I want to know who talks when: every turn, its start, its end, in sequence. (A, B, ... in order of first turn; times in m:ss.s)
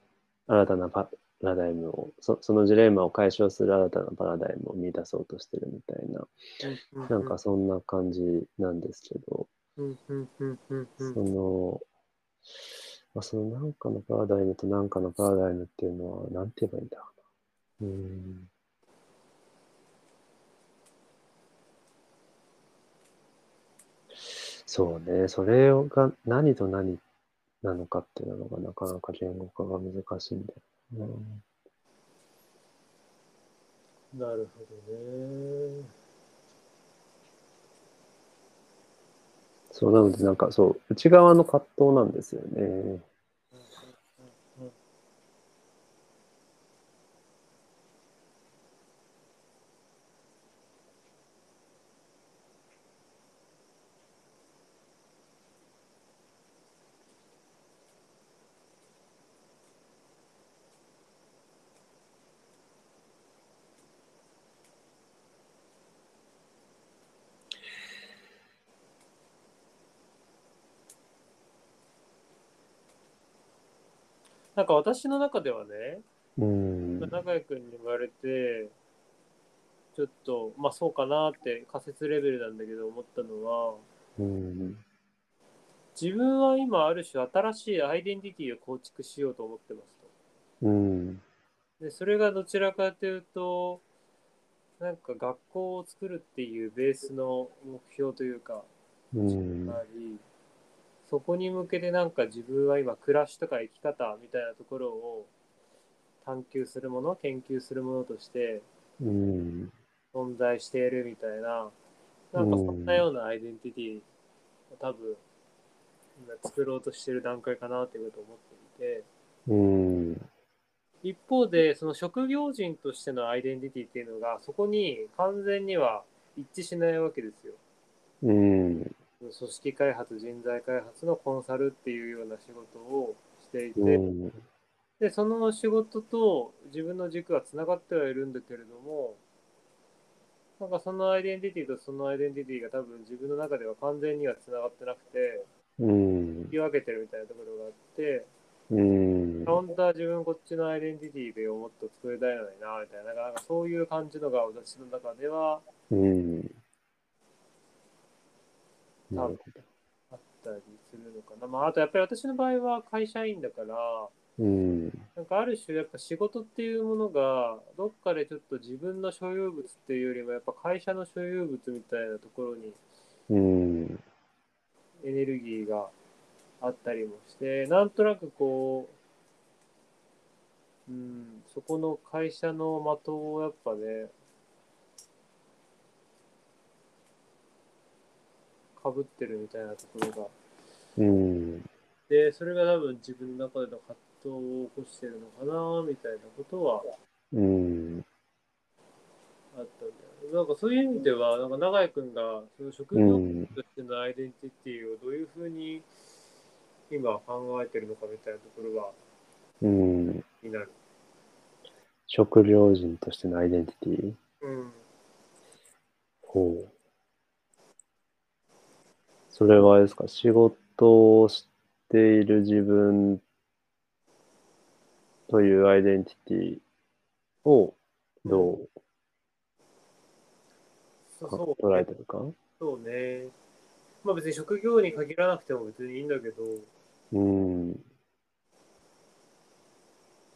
0:00.5-0:06.3 A
0:06.6-0:07.4 B
0:07.1-0:09.5 A
0:09.8-0:11.2 B
0:11.1-0:11.8 A
0:13.1-0:17.1 A
0:17.8-0:18.5 A
0:24.2-0:27.0 A
0:27.6-0:31.4 A
0:34.1-0:35.9 B
0:39.7-0:43.0 A
0:43.6-0:44.7 B
1:14.6-1:16.0 B
1:16.4-1:17.1 A
1:17.0-1:18.7 B
1:20.0-1:23.8 B
1:24.2-1:24.8 A
1:26.0-1:30.1 B
1:30.6-1:31.2 A
1:31.8-1:33.8 B
1:34.8-1:38.7 B
1:39.1-1:39.8 A
1:39.7-1:40.2 B
1:41.0-1:45.3 B
1:46.2-1:48.7 B
1:49.0-1:49.7 A
1:50.1-1:51.8 B
1:52.3-1:54.1 B
1:52.4-1:53.0 A
1:54.7-1:55.2 B
1:56.2-1:59.1 B
1:59.5-2:00.2 A
2:01.0-2:07.6 B
2:08.2-2:08.9 A
2:09.2-2:14.0 B
2:13.8-2:14.4 A
2:15.0-2:19.2 B
2:20.6-2:25.5 B
2:25.8-2:26.5 A
2:26.5-2:28.3 B
2:28.7-2:29.6 A
2:29.5-2:35.6 B
2:35.9-2:36.5 A
2:39.1-2:39.6 A
2:39.1-2:39.4 B
2:40.1-2:44.1 B
2:44.4-2:45.1 A
2:45.2-2:52.8 B
2:53.3-2:54.0 A
2:55.0-2:55.9 B
2:56.6-2:59.0 B
3:00.9-3:04.1 B
3:08.8-3:10.3 B
3:11.0-3:11.7 A
3:12.1-3:16.9 B
3:17.3-3:18.0 A
3:19.5-3:25.9 B
3:23.0-3:23.5 A
3:26.9-3:29.0 B
3:29.6-3:30.2 A
3:30.4-3:30.8 B
3:32.1-3:34.2 A
3:34.4-3:34.8 B
3:36.2-3:36.7 A
3:39.3-3:43.2 A
3:45.3-3:46.6 A
3:47.4-3:48.7 A
3:48.2-3:48.6 B
3:51.2-3:51.9 B
3:51.3-3:52.3 A
3:52.6-3:53.3 B
3:54.0-3:56.7 B
3:57.1-3:57.8 A